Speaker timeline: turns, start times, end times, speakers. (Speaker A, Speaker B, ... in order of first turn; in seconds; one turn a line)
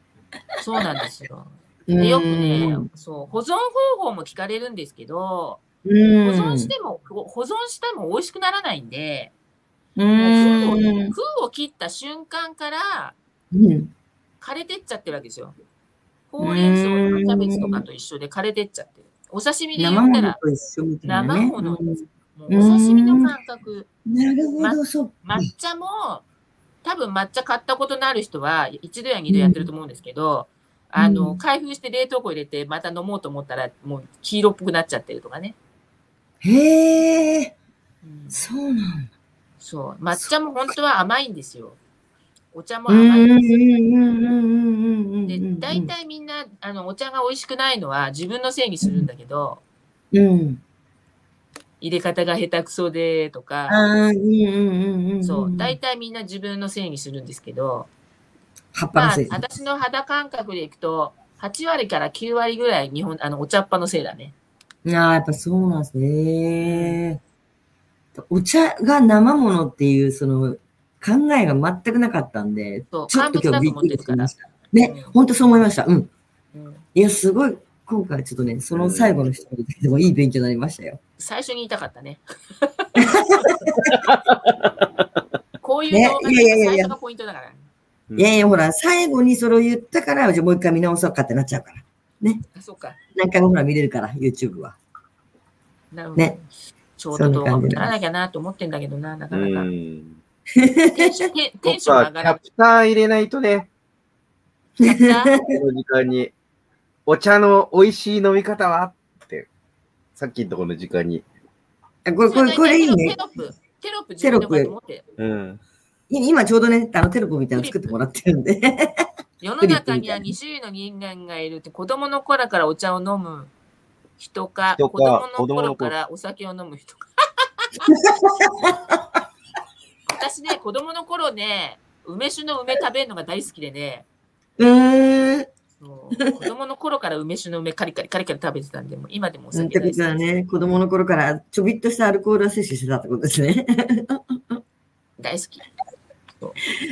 Speaker A: 0.6-5.6
Speaker B: 1.9-2.9
Speaker B: 5.8-6.7
Speaker A: 6.2-9.3
Speaker B: 9.9-11.2
Speaker A: 10.1-13.2
Speaker B: 13.5-13.9
Speaker A: 14.4-15.5
Speaker A: 16.3-20.4
Speaker B: 16.4-17.8
Speaker B: 19.8-23.3
Speaker A: 21.0-21.8
Speaker A: 22.3-23.9
Speaker B: 24.1-25.5
Speaker A: 24.6-26.2
Speaker A: 26.8-35.5
Speaker B: 29.3-29.7
Speaker B: 31.0-31.4
Speaker B: 36.4-37.5
Speaker A: 38.0-38.4
Speaker B: 38.3-39.1
Speaker A: 39.6-41.8
Speaker A: 42.5-43.4
Speaker B: 42.9-45.9
Speaker A: 45.2-49.6
Speaker B: 48.8-49.1
Speaker B: 50.1-50.6
Speaker A: 51.8-53.8
Speaker B: 53.7-55.8
Speaker A: 55.2-57.9
Speaker B: 58.7-59.4
Speaker A: 58.9-64.3
Speaker B: 64.8-67.2
Speaker A: 66.7-67.0
Speaker B: 68.1-76.1
Speaker A: 72.9-75.2
Speaker A: 76.5-76.8
Speaker B: 76.9-81.0
Speaker C: 78.7-79.2
Speaker A: 81.2-83.4
Speaker B: 83.0-84.0
Speaker C: 83.8-84.7
Speaker A: 85.6-87.6
Speaker B: 85.9-86.9
Speaker B: 88.1-92.4
Speaker A: 92.5-93.0
Speaker B: 93.1-94.8
Speaker A: 95.9-99.7
Speaker B: 97.1-97.9
Speaker C: 99.3-100.2
Speaker B: 100.5-101.3
Speaker A: 100.9-102.4
Speaker C: 101.7-103.7
Speaker A: 104.8-105.3
Speaker B: 104.8-105.5
Speaker C: 105.5-106.3
Speaker C: 107.1-109.5
Speaker C: 110.2-111.2
Speaker B: 112.0-113.2
Speaker A: 112.2-115.0
Speaker B: 114.2-114.7
Speaker C: 115.2-115.6
Speaker B: 116.1-119.0
Speaker A: 117.5-117.9
Speaker A: 119.4-123.5
Speaker B: 119.6-120.3
Speaker A: 124.2-127.9
Speaker C: 124.8-125.9
Speaker B: 127.9-129.2
Speaker A: 130.1-134.0
Speaker B: 134.6-135.5
Speaker A: 135.8-140.2
Speaker B: 139.5-144.6
Speaker A: 145.2-145.6